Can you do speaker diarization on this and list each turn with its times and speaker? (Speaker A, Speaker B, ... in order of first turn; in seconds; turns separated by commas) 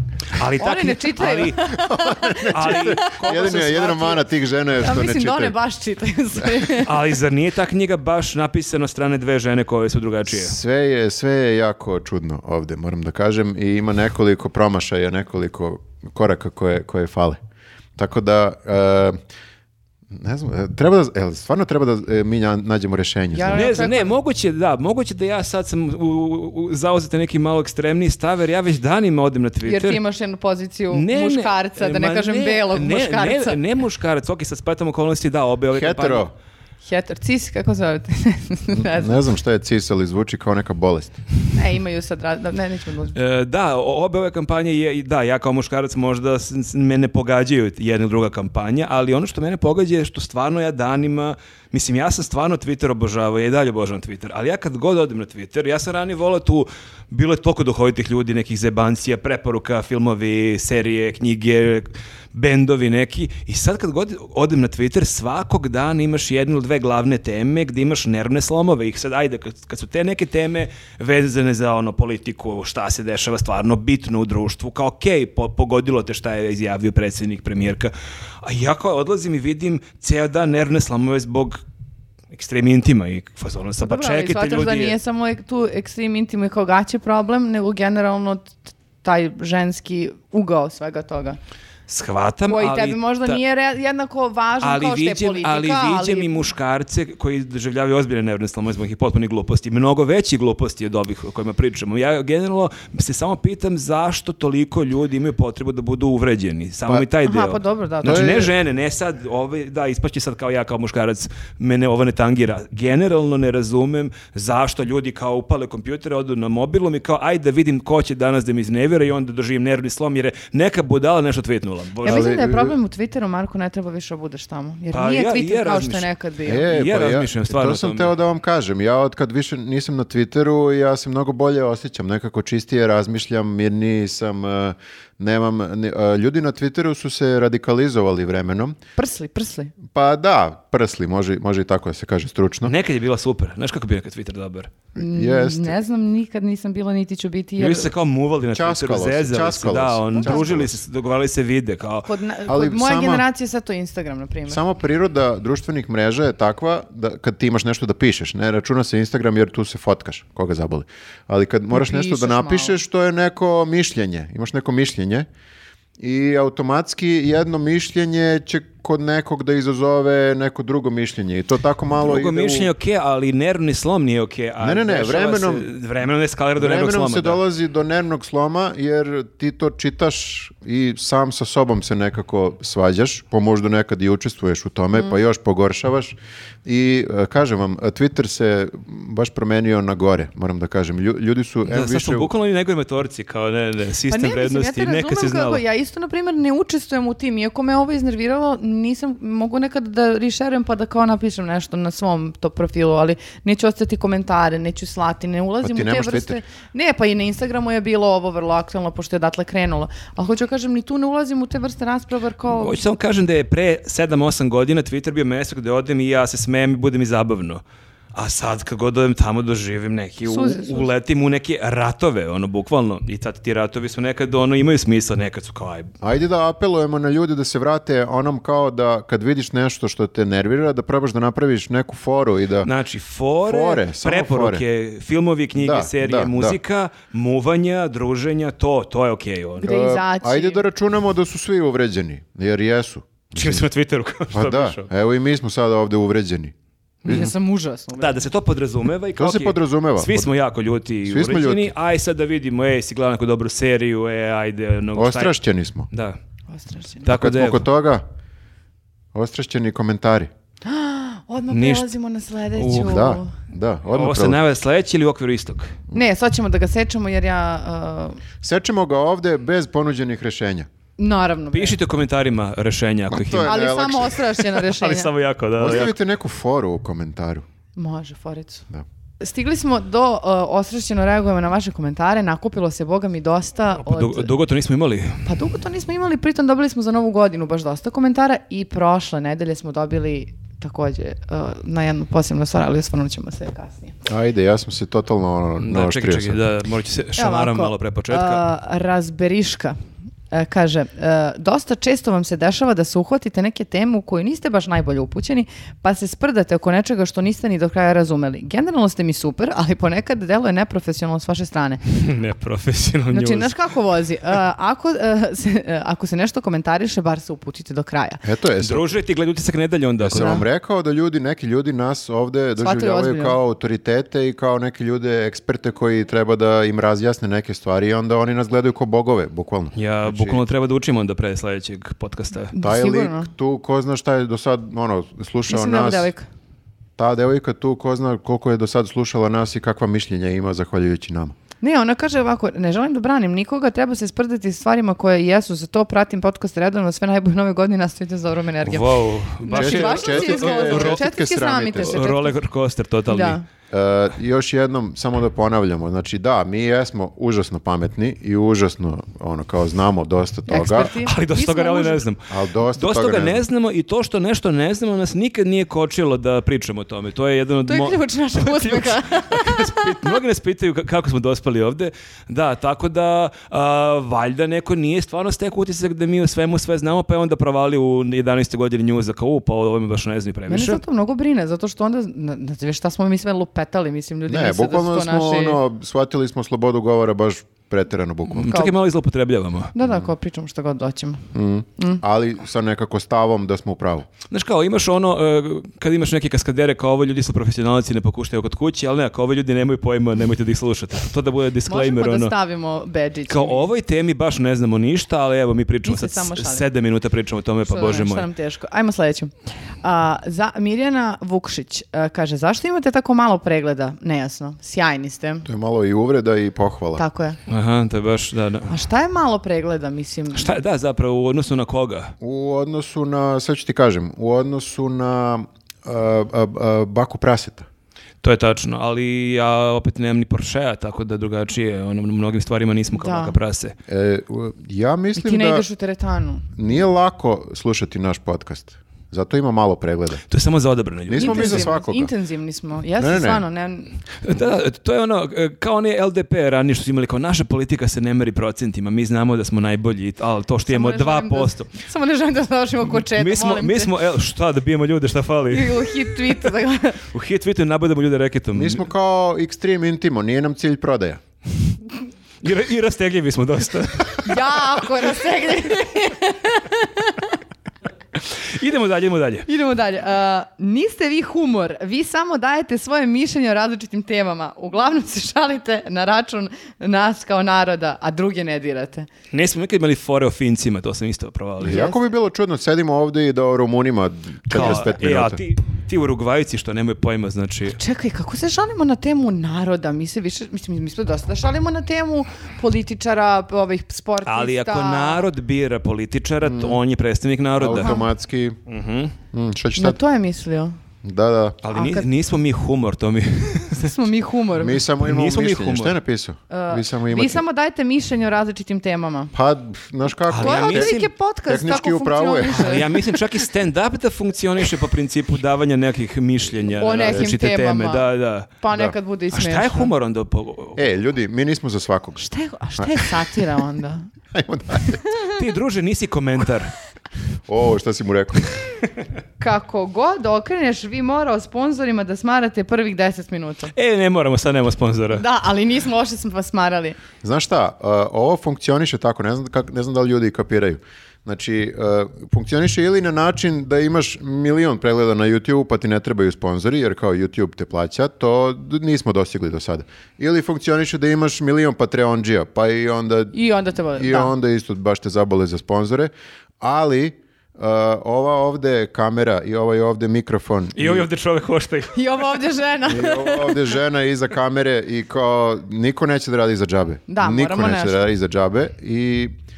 Speaker A: 0.3-1.7, Speaker B: 0.6-4.2, Speaker C: 1.7-5.6, Speaker A: 2.5-4.0, Speaker B: 4.8-7.1, Speaker A: 6.8-10.6, Speaker C: 10.3-17.4, Speaker C: 18.0-19.2, Speaker C: 20.1-23.6, Speaker B: 23.3-24.2, Speaker A: 23.5-30.0, Speaker B: 29.7-33.6, Speaker A: 30.9-36.3, Speaker C: 35.7-36.3, Speaker B: 36.8-39.3, Speaker C: 38.7-41.2, Speaker B: 41.5-43.2, Speaker A: 43.1-77.9, Speaker A: 78.4-81.6, Speaker A: 82.3-85.0, Speaker B: 83.8-91.4, Speaker A: 91.9-93.4, Speaker B: 92.5-96.5, Speaker A: 94.6-122.3, Speaker B: 107.2-108.5, Speaker C: 108.0-108.5, Speaker B: 122.0-126.7, Speaker C: 122.1-122.8, Speaker A: 124.9-128.2, Speaker C: 126.5-138.8, Speaker B: 139.0-139.8, Speaker C: 139.9-142.7, Speaker A: 142.6-144.7, Speaker C: 145.0-145.8, Speaker B: 145.0-147.9, Speaker A: 147.6-152.1, Speaker C: 148.5-150.8, Speaker B: 150.1-150.6, Speaker B: 152.1-154.6, Speaker C: 152.5-153.2, Speaker C: 154.5-165.3, Speaker B: 161.7-162.8, Speaker C: 166.0-172.7, Speaker A: 172.0-177.4, Speaker C: 174.6-175.7, Speaker C: 176.6-192.3, Speaker A: 191.7-195.6, Speaker B: 194.1-212.8, Speaker C: 205.6-206.4, Speaker A: 212.5-217.6, Speaker A: 218.1-225.9, Speaker B: 220.3-220.9, Speaker C: 226.0-232.7, Speaker A: 232.6-239.7, Speaker C: 233.5-234.6, Speaker C: 235.6-236.6, Speaker B: 239.6-240.6, Speaker C: 239.6-243.7, Speaker A: 243.3-244.9, Speaker C: 244.3-246.5, Speaker A: 247.1-247.3, Speaker B: 247.1-248.2, Speaker A: 248.0-255.3, Speaker C: 249.2-250.3, Speaker C: 251.1-251.7, Speaker C: 254.9-255.9, Speaker A: 255.9-256.2, Speaker B: 256.5-257.1, Speaker A: 257.0-257.7, Speaker C: 257.1-258.0, Speaker C: 259.1-260.3, Speaker B: 260.6-263.3, Speaker A: 261.5-261.9, Speaker A: 262.6-263.0, Speaker C: 262.8-264.4, Speaker A: 263.9-265.8, Speaker B: 265.9-268.2, Speaker C: 268.4-270.7, Speaker B: 271.0-271.8, Speaker A: 271.5-273.6, Speaker C: 273.1-274.4, Speaker B: 273.4-275.1, Speaker A: 274.6-275.9, Speaker C: 275.6-277.4, Speaker B: 277.8-278.6, Speaker B: 279.2-284.3, Speaker A: 283.8-285.3, Speaker B: 285.3-294.0, Speaker C: 294.1-296.4, Speaker A: 295.6-298.4, Speaker B: 297.2-299.8, Speaker B: 300.3-311.8, Speaker A: 311.9-313.6, Speaker B: 313.1-318.2, Speaker C: 318.2-318.9, Speaker A: 318.6-320.4, Speaker C: 320.0-330.4, Speaker B: 320.2-320.4, Speaker B: 322.6-323.4, Speaker A: 329.8-332.5, Speaker B: 332.5-333.3, Speaker C: 332.6-336.1, Speaker B: 335.5-336.3, Speaker C: 337.0-341.4, Speaker B: 341.6-352.4, Speaker A: 348.6-351.1, Speaker C: 349.5-352.0, Speaker A: 351.8-353.4, Speaker B: 353.1-353.4, Speaker C: 353.7-360.9, Speaker B: 360.5-362.1, Speaker A: 361.0-380.8, Speaker C: 362.3-363.4, Speaker B: 367.7-370.2, Speaker B: 380.5-385.6, Speaker C: 384.3-388.6, Speaker A: 388.3-389.7, Speaker B: 388.5-388.8, Speaker B: 389.8-392.0, Speaker C: 389.8-390.1, Speaker C: 391.3-394.1, Speaker A: 394.3-402.3, Speaker B: 401.7-403.7, Speaker A: 403.3-408.3, Speaker B: 405.9-406.6, Speaker B: 407.6-415.4, Speaker C: 415.4-417.0, Speaker B: 417.0-417.4, Speaker A: 417.5-418.7, Speaker B: 418.7-420.5, Speaker A: 420.3-422.1, Speaker C: 422.2-427.7, Speaker A: 428.2-433.8, Speaker B: 432.9-433.4, Speaker C: 433.9-435.7, Speaker B: 435.2-436.6, Speaker C: 436.6-440.2, Speaker A: 440.3-441.7, Speaker C: 441.1-442.1, Speaker B: 441.1-444.0, Speaker C: 443.0-443.4, Speaker A: 444.2-451.7, Speaker B: 450.7-453.9, Speaker A: 452.9-455.8, Speaker B: 455.5-457.0, Speaker A: 457.1-458.9, Speaker C: 458.5-461.2, Speaker A: 462.4-464.6, Speaker B: 464.2-467.4, Speaker A: 468.2-469.5, Speaker B: 469.5-479.1, Speaker A: 479.3-481.9, Speaker C: 481.6-485.4, Speaker B: 481.7-482.0, Speaker A: 484.5-487.8, Speaker B: 484.6-484.9, Speaker B: 487.8-495.3, Speaker A: 494.3-498.0, Speaker C: 496.4-496.8, Speaker C: 497.6-498.6, Speaker B: 497.8-498.1, Speaker A: 498.7-499.1, Speaker C: 499.3-500.0, Speaker B: 499.8-500.8, Speaker C: 501.0-501.6, Speaker A: 501.6-503.9, Speaker B: 501.7-502.1, Speaker B: 503.8-504.8, Speaker C: 504.5-507.4, Speaker A: 505.0-506.0, Speaker B: 506.5-509.3, Speaker C: 509.3-510.9, Speaker A: 510.3-511.1, Speaker B: 510.4-513.2, Speaker C: 511.5-512.9, Speaker A: 512.5-518.6, Speaker B: 516.8-518.1, Speaker C: 517.0-517.3, Speaker B: 518.6-519.9, Speaker A: 519.3-520.8, Speaker C: 520.8-523.1, Speaker B: 522.2-524.1, Speaker C: 524.3-525.0, Speaker B: 525.1-525.3, Speaker A: 525.3-526.7, Speaker C: 527.5-528.6, Speaker B: 529.4-533.7, Speaker A: 533.7-535.2, Speaker B: 535.1-537.0, Speaker C: 537.2-553.4, Speaker B: 553.3-554.3, Speaker C: 554.0-561.1, Speaker A: 560.8-562.0, Speaker B: 561.9-563.7, Speaker C: 562.9-569.3, Speaker B: 567.1-568.0